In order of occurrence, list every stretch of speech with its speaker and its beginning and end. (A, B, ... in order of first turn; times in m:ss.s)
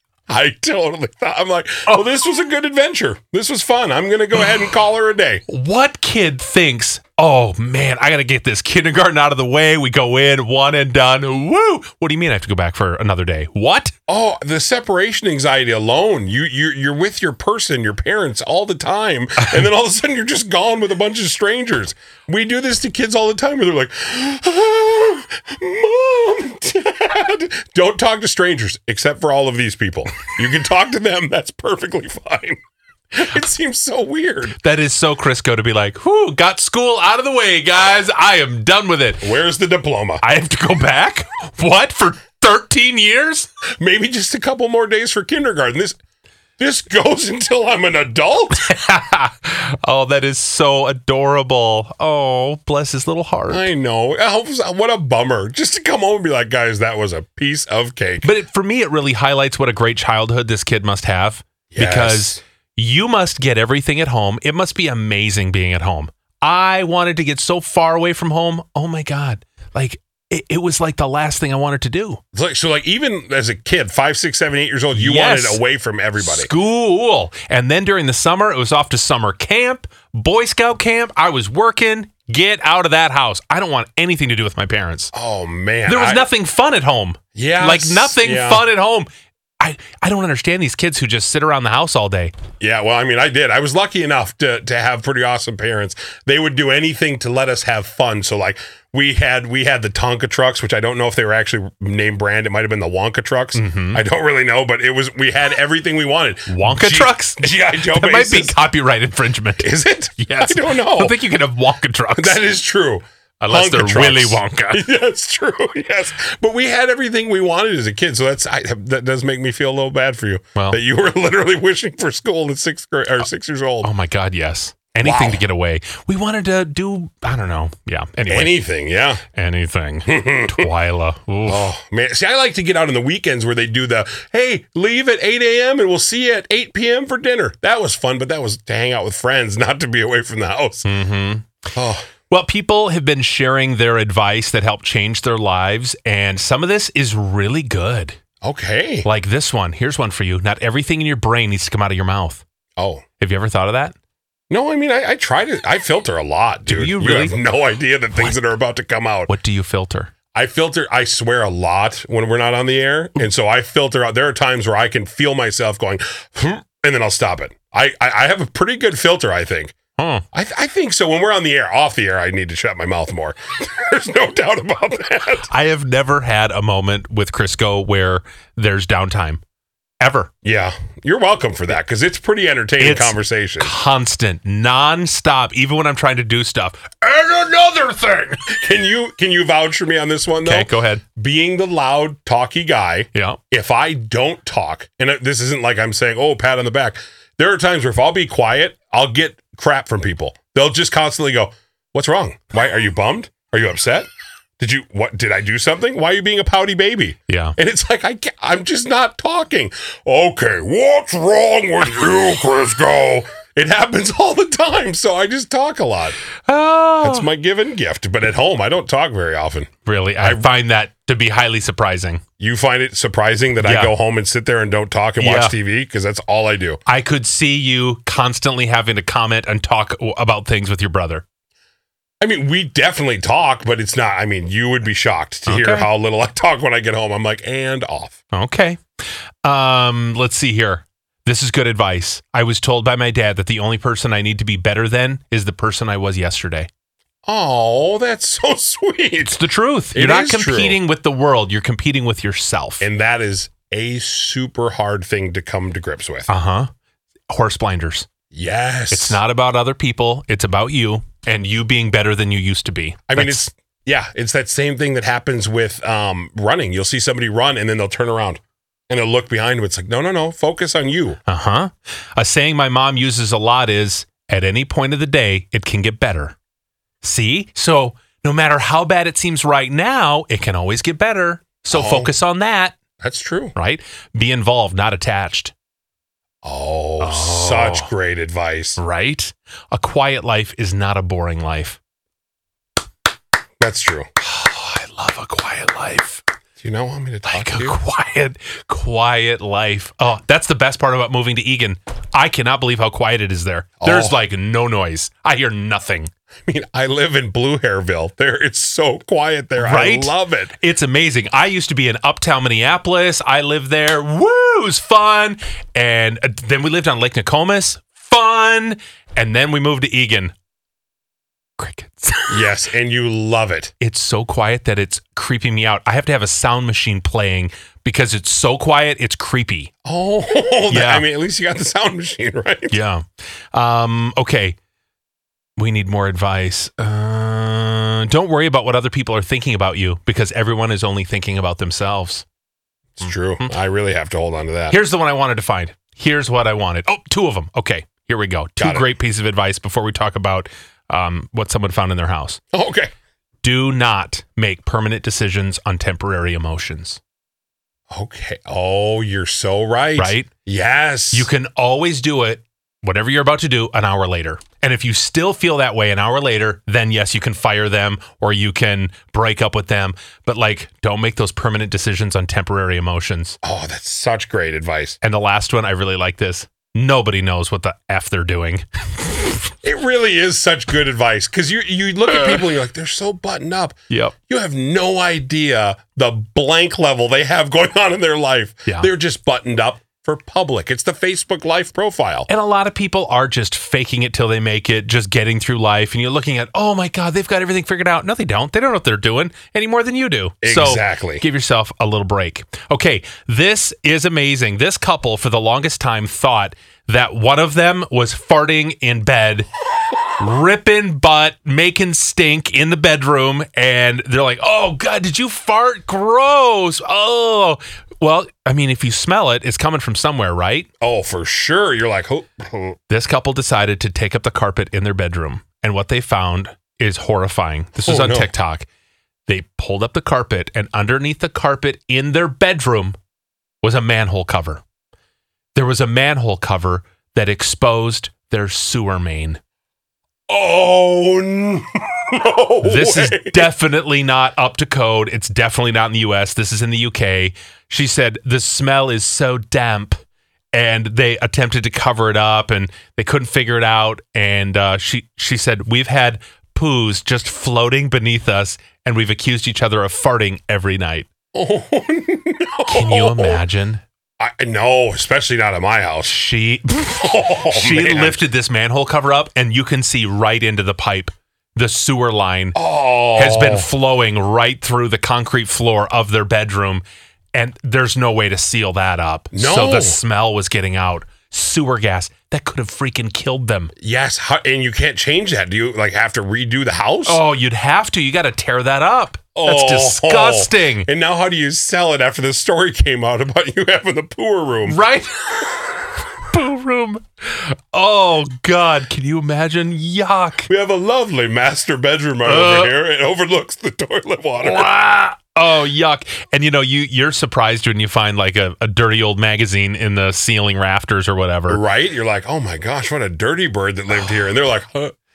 0:00.3-0:05.4 A
0:05.5-0:13.9 B
0:14.1-0:32.6 A
0:33.1-0:34.6 A
0:34.6-0:39.3 B
0:39.2-0:40.2 A
0:40.2-0:43.5 B
0:43.8-0:46.0 A
0:46.6-0:48.6 A
0:48.6-0:53.7 B
0:53.5-0:58.3 A
0:58.2-1:12.2 B
1:01.7-1:02.4 A
1:12.3-1:16.5 A
1:14.9-1:15.6 B
1:16.2-1:25.1 B
1:25.1-1:26.3 A
1:25.8-1:29.1 B
1:27.3-1:28.6 A
1:29.6-1:32.3 B
1:32.6-1:48.6 A
1:43.5-1:44.0 B
1:46.5-1:52.4 B
1:49.6-1:51.2 A
1:52.2-2:03.9 A
1:53.4-1:54.8 B
2:03.8-2:08.6 B
2:05.0-2:05.4 A
2:08.3-2:09.2 A
2:09.3-2:11.7 B
2:10.1-2:10.7 A
2:11.4-2:20.9 A
2:20.8-2:21.4 B
2:21.8-2:22.1 A
2:22.3-2:28.2 B
2:28.4-2:29.1 A
2:29.0-2:32.4 B
2:32.8-2:33.0 A
2:33.2-2:33.9 B
2:34.5-2:39.3 A
2:36.6-2:37.3 B
2:39.3-2:40.1 B
2:40.3-2:49.7 A
2:50.0-2:50.2 B
2:50.3-2:55.5 A
2:55.5-2:59.4 B
3:00.0-3:00.3 B
3:00.4-3:03.7 A
3:02.8-3:08.4 B
3:08.5-3:24.1 A
3:10.4-3:11.0 B
3:13.1-3:13.4 B
3:24.6-3:36.2 A
3:27.3-3:27.6 B
3:36.5-3:37.2 B
3:37.0-3:39.7 A
3:39.8-3:42.2 B
3:42.4-3:46.8 A
3:43.6-3:43.9 B
3:45.2-3:45.5 B
3:46.8-3:51.2 B
3:52.2-3:58.2 A
3:55.5-3:55.9 B
3:58.3-3:58.8 B
3:59.4-4:06.7 B
4:07.2-4:09.4 A
4:09.2-4:12.8 B
4:09.9-4:10.8 A
4:12.8-4:16.3 A
4:16.3-4:16.7 B
4:17.3-4:18.1 B
4:18.3-4:19.2 A
4:18.9-4:23.5 B
4:23.1-4:31.2 A
4:31.3-4:36.3 B
4:37.0-4:42.8 B
4:41.7-4:42.1 A
4:43.0-4:43.5 A
4:43.5-4:45.5 B
4:46.4-4:48.8 A
4:47.0-4:47.9 B
4:48.8-4:51.8 B
4:53.6-4:54.1 A
4:54.2-4:56.2 B
4:56.6-4:57.8 A
4:57.2-5:06.1 B
5:03.8-5:04.2 A
5:06.5-5:10.5 A
5:09.6-5:20.3 B
5:21.6-5:22.5 B
5:22.3-5:23.7 A
5:23.8-5:29.7 B
5:29.8-5:32.8 A
5:30.7-5:31.0 B
5:32.7-5:34.6 B
5:35.6-5:42.2 B
5:43.0-5:44.8 A
5:44.7-5:52.4 B
5:48.6-5:48.9 A
5:52.5-5:52.9 A
5:53.4-5:57.0 B
5:57.9-6:01.3 A
6:00.0-6:00.3 B
6:01.1-6:13.4 B
6:13.4-6:15.0 A
6:15.0-6:19.5 B
6:19.6-6:23.8 A
6:23.9-6:24.1 B
6:24.3-6:32.3 A
6:32.3-6:49.5 B
6:40.4-6:41.2 A
6:50.2-7:00.7 B
7:00.8-7:02.8 A
7:02.9-7:08.6 B
7:07.8-7:08.3 A
7:09.3-7:13.0 B
7:13.6-7:14.6 B
7:15.5-7:19.4 B
7:20.3-7:23.5 A
7:22.6-7:30.0 B
7:30.5-7:41.1 B
7:41.3-7:43.4 A
7:42.7-7:43.8 B
7:44.2-7:46.2 A
7:46.0-7:52.6 B
7:46.9-7:48.2 A
7:52.5-7:53.7 A
7:53.1-8:03.7 B
7:59.3-8:00.0 A
8:03.8-8:07.2 A
8:07.0-8:10.9 B
8:09.4-8:14.8 A
8:14.6-8:15.7 B
8:16.3-8:20.5 B
8:20.5-8:24.7 A
8:22.2-8:22.7 B
8:24.4-8:31.6 B
8:31.5-8:34.9 A
8:33.9-8:34.2 B